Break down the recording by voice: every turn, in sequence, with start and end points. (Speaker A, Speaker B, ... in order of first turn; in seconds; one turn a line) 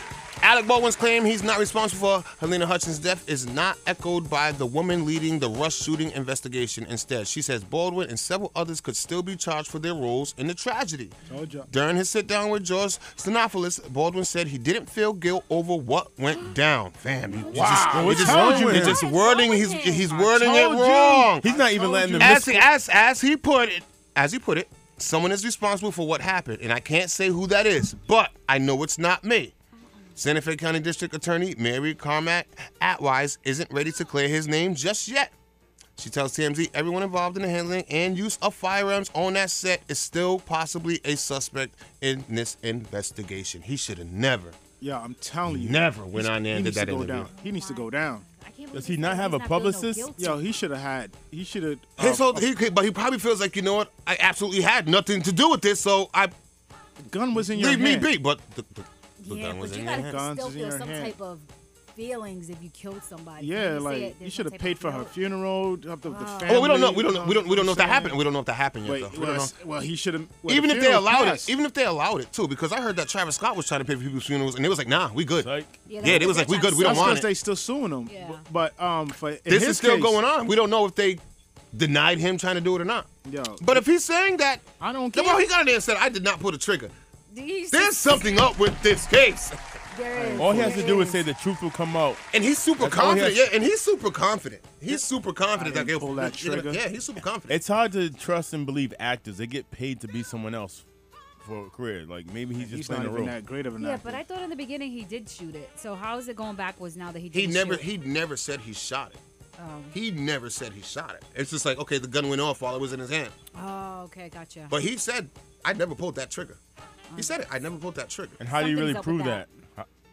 Speaker A: 0.4-11.1
Speaker B: 11.3-11.7
Speaker A: 11.7-21.5
Speaker B: 17.5-19.0
Speaker C: 17.7-19.0
Speaker D: 18.4-20.1
Speaker B: 20.1-22.6
Speaker C: 21.4-22.7
Speaker A: 22.1-29.5
Speaker A: 30.2-35.3
Speaker A: 36.0-44.5
Speaker B: 44.8-48.2
Speaker A: 45.5-47.3
Speaker D: 47.3-50.4
Speaker C: 48.7-50.1
Speaker B: 50.2-52.5
Speaker A: 52.0-56.3
Speaker B: 57.0-58.1
Speaker A: 57.4-60.0
Speaker D: 59.2-65.1
Speaker B: 59.9-61.1
Speaker B: 63.4-68.2
Speaker D: 66.0-66.6
Speaker A: 66.5-69.5
Speaker B: 68.8-71.5
Speaker A: 70.5-77.3
Speaker C: 75.4-75.8
Speaker D: 75.9-77.2
Speaker B: 76.3-80.2
Speaker D: 78.1-78.4
Speaker A: 79.5-81.2
Speaker A: 81.7-83.1
Speaker B: 83.2-83.8
Speaker A: 83.6-86.9
Speaker B: 84.8-85.5
Speaker D: 87.3-88.4
Speaker A: 87.7-89.6
Speaker D: 89.9-91.2
Speaker B: 90.1-91.0
Speaker C: 90.3-92.2
Speaker A: 92.3-97.6
Speaker C: 92.8-93.5
Speaker B: 95.5-96.8
Speaker C: 97.5-100.8
Speaker C: 101.4-103.4
Speaker B: 102.5-104.2
Speaker D: 103.8-107.8
Speaker A: 107.3-109.2
Speaker D: 109.6-109.9
Speaker A: 109.9-113.3
Speaker D: 113.5-114.7
Speaker A: 114.7-116.6
Speaker A: 117.2-118.4
Speaker C: 118.4-119.9
Speaker D: 118.5-119.5